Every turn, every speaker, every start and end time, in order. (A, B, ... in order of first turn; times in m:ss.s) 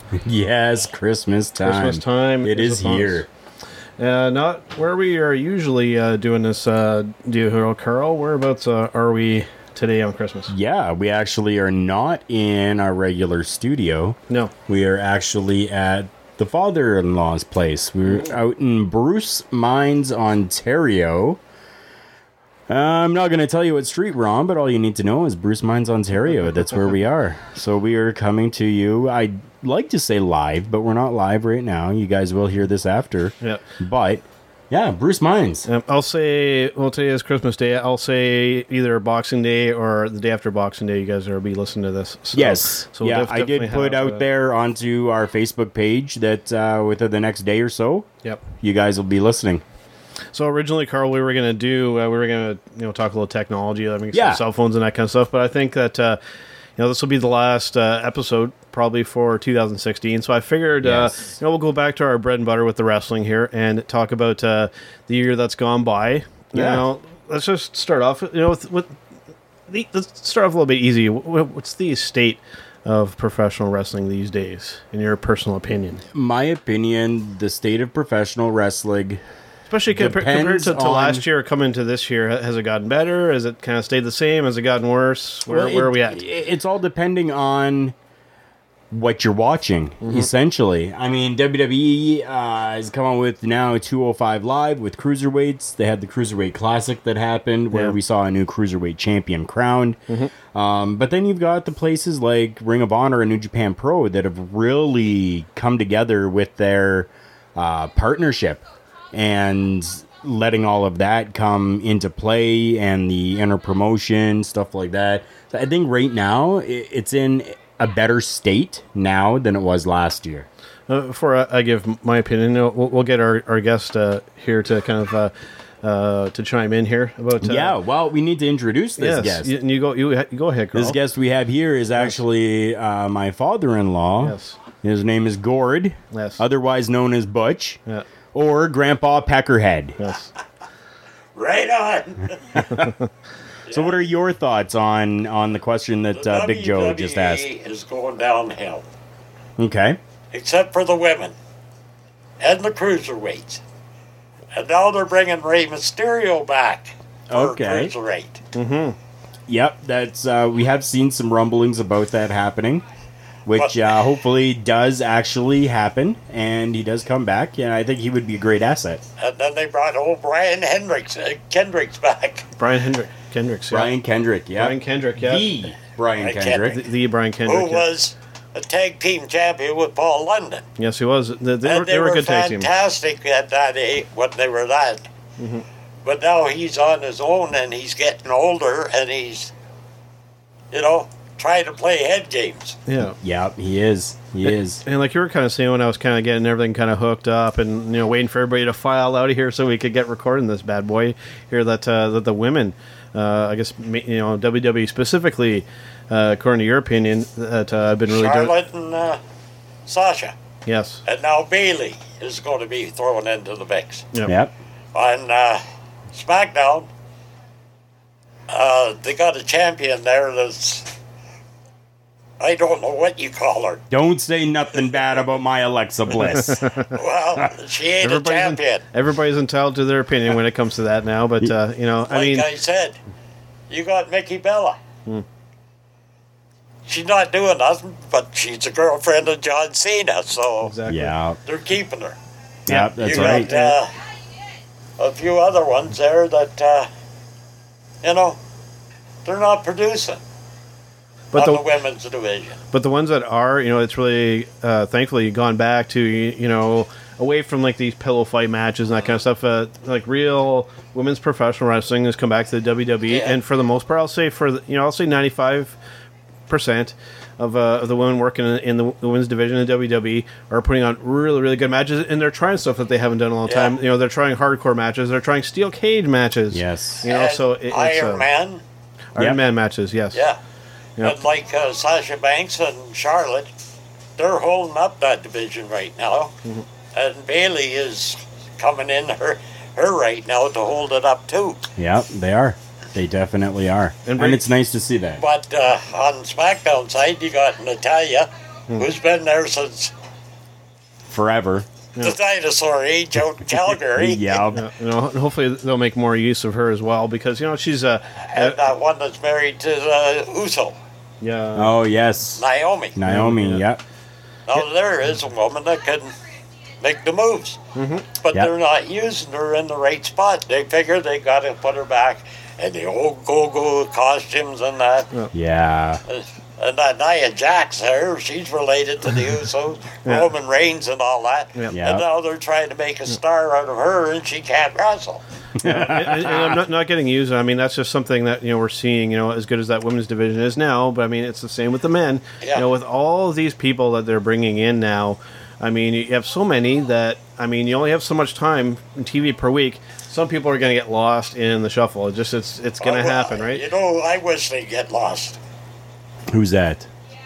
0:00.2-0:03.3 A
0:01.6-0:03.2 B
0:04.0-0:10.5 B
0:10.5-0:14.2 A
0:14.7-0:21.4 A
0:22.7-0:35.7 A
0:26.3-0:26.7 B
0:35.6-0:44.2 B
0:42.3-0:48.1 A
0:48.6-0:49.6 A
0:50.3-0:56.2 B
0:54.1-0:54.4 A
0:56.8-1:09.0 B
1:00.8-1:01.2 A
1:06.5-1:06.8 A
1:09.7-1:16.0 B
1:16.1-1:19.2 A
1:19.7-1:26.2 B
1:19.9-1:21.2 A
1:25.4-1:27.9 A
1:28.9-1:40.0 A
1:30.0-1:30.3 B
1:37.7-1:38.0 B
1:40.5-1:48.6 A
1:49.1-2:00.5 A
2:00.9-2:05.3 B
2:05.8-2:07.8 B
2:07.4-2:09.5 A
2:09.0-2:11.0 B
2:10.7-2:17.8 A
2:14.2-2:14.6 B
2:16.1-2:16.4 B
2:18.3-2:20.0 A
2:20.0-2:20.3 B
2:21.4-2:22.6 C
2:22.5-2:22.9 A
2:23.7-2:24.0 C
2:23.7-2:27.5 A
2:26.1-2:28.8 C
2:29.6-2:30.0 A
2:30.3-2:31.3 C
2:32.4-2:33.6 C
2:34.5-2:38.4 C
2:37.3-2:37.9 A
2:38.5-2:39.0 B
2:39.5-2:42.8 A
2:43.4-2:49.0 A
2:49.2-2:52.5 C
2:52.6-2:53.9 B
2:53.7-2:56.7 A
2:54.5-2:55.4 B
2:56.2-2:56.8 C
2:56.5-2:57.8 B
2:57.4-3:00.6 C
3:00.8-3:02.7 B
3:01.6-3:05.0 C
3:05.4-3:05.6 B
3:06.0-3:09.5 C
3:10.7-3:12.8 C
3:12.9-3:13.2 B
3:13.2-3:14.8 A
3:14.4-3:28.5 B
3:28.1-3:29.2 C
3:29.8-3:30.3 C
3:30.6-3:31.0 B
3:31.0-3:34.1 C
3:34.2-3:34.5 A
3:34.9-3:36.9 C
3:38.5-3:40.9 C
3:42.4-3:43.8 C
3:43.9-3:46.7 A
3:46.4-3:46.8 B
3:46.8-3:48.8 C
3:48.0-3:52.5 B
3:52.1-3:53.0 C
3:53.7-3:54.8 C
3:56.8-4:00.8 C
4:00.6-4:01.1 B
4:00.9-4:01.4 A
4:01.4-4:02.2 C
4:02.7-4:03.5 A
4:02.7-4:03.8 B
4:03.0-4:03.9 C
4:05.0-4:06.9 C
4:08.0-4:08.4 C
4:09.2-4:10.2 C
4:11.3-4:11.6 B
4:11.3-4:12.6 C
4:12.7-4:25.8 B
4:23.1-4:23.4 C
4:26.5-4:38.2 B
4:33.4-4:33.7 C
4:36.5-4:37.0 A
4:37.0-4:38.6 C
4:39.1-4:40.2 B
4:40.1-4:40.4 C
4:41.0-4:43.5 C
4:44.2-4:46.3 C
4:46.9-4:51.7 C
4:51.8-4:55.2 A
4:54.0-4:54.4 B
4:55.2-4:59.9 C
5:01.1-5:01.7 A
5:02.0-5:04.4 C
5:03.8-5:04.6 A
5:04.5-5:08.6 B
5:08.3-5:10.8 C
5:11.2-5:11.7 B
5:11.5-5:12.4 A
5:12.4-5:12.9 C
5:13.0-5:13.8 A
5:13.0-5:13.6 B
5:14.5-5:16.1 C
5:16.8-5:17.6 C
5:17.7-5:18.0 B
5:18.2-5:25.1 C
5:25.3-5:26.0 A
5:26.1-5:35.2 C
5:31.7-5:32.0 A
5:35.6-5:36.6 A
5:35.6-5:53.6 B
5:52.8-5:55.4 C
5:56.3-5:56.9 A